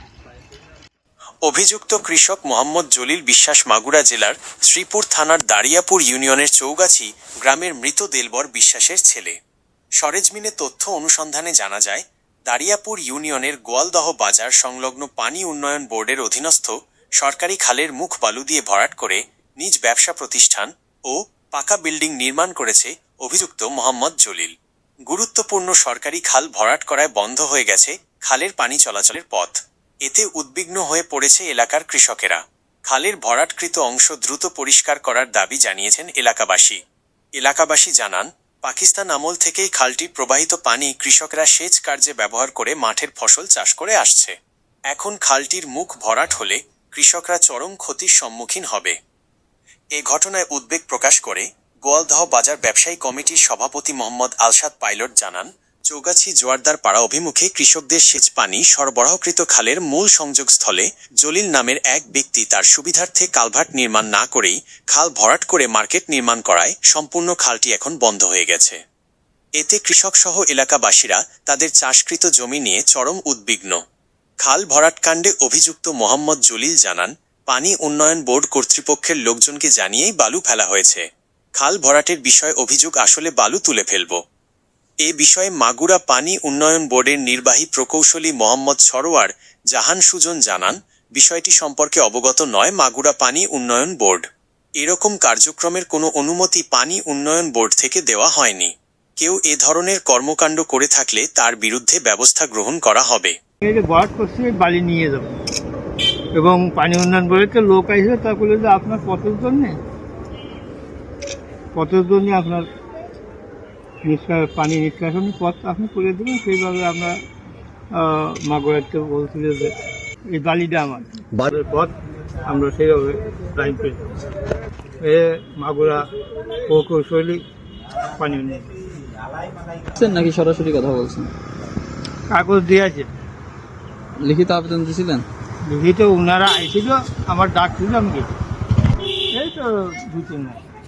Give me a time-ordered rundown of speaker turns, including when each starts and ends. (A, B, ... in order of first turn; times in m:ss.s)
0:01.4-0:09.4 A
0:10.0-0:24.5 A
0:25.1-0:36.8 A
0:37.4-0:44.4 A
0:44.9-0:49.0 A
0:50.0-1:08.8 A
1:09.6-1:13.8 A
1:14.4-1:21.0 A
1:21.6-1:24.2 A
1:25.0-1:34.3 A
1:34.8-1:43.3 A
1:43.6-1:45.3 B
1:46.4-1:49.8 B
1:51.7-1:52.6 B
1:54.0-1:57.2 B
1:57.9-1:59.7 B
2:00.3-2:01.9 B
2:02.4-2:04.0 B
2:05.0-2:06.0 B
2:06.7-2:07.4 B
2:08.2-2:08.7 B
2:09.9-2:11.3 C
2:12.3-2:13.1 B
2:14.2-2:15.2 C
2:15.7-2:18.3 B
2:19.3-2:20.6 B